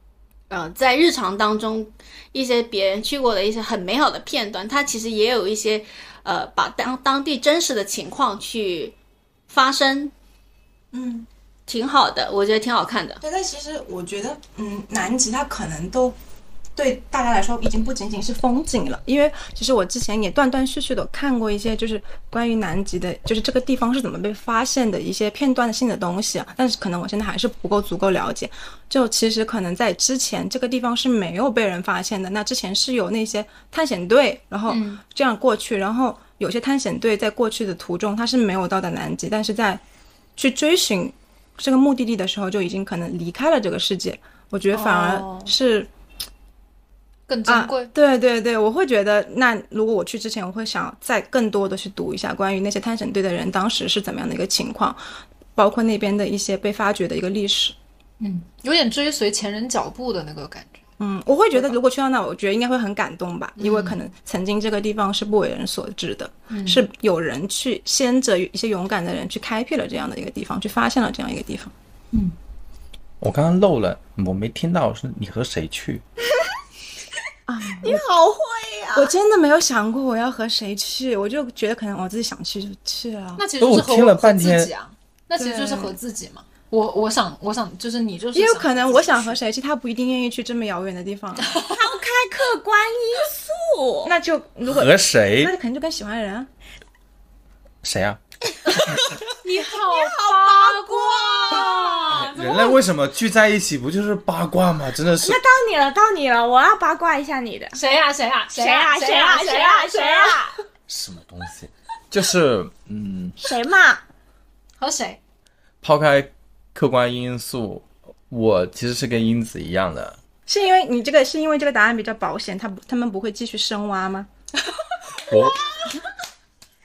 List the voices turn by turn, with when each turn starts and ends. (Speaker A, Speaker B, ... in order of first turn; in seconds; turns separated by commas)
Speaker A: 0.5-9.0, Speaker A: 9.5-10.1, Speaker B: 10.9-11.3, Speaker A: 11.7-13.2, Speaker B: 13.2-16.1, Speaker B: 16.8-39.8, Speaker C: 34.7-35.0, Speaker B: 40.4-45.9, Speaker C: 44.7-45.5, Speaker C: 47.3-47.9, Speaker B: 47.5-55.0, Speaker B: 55.6-57.8, Speaker C: 58.2-60.8, Speaker B: 61.0-71.7, Speaker C: 63.6-64.0, Speaker C: 66.5-66.8, Speaker D: 73.2-76.0, Speaker B: 77.5-78.0, Speaker E: 77.8-79.0, Speaker B: 78.9-83.4, Speaker C: 83.4-89.4, Speaker D: 83.6-84.7, Speaker B: 85.4-86.0, Speaker B: 88.3-91.6, Speaker E: 91.6-94.1, Speaker B: 94.0-96.5, Speaker D: 94.7-95.5, Speaker D: 97.8-98.2, Speaker C: 99.4-102.8, Speaker E: 99.7-102.3, Speaker D: 102.1-105.4, Speaker E: 105.2-107.8, Speaker C: 107.7-110.4, Speaker E: 108.5-110.5, Speaker D: 110.9-113.4, Speaker E: 113.4-114.0, Speaker C: 114.8-115.2, Speaker D: 115.8-120.2, Speaker B: 120.5-124.3, Speaker D: 125.3-125.8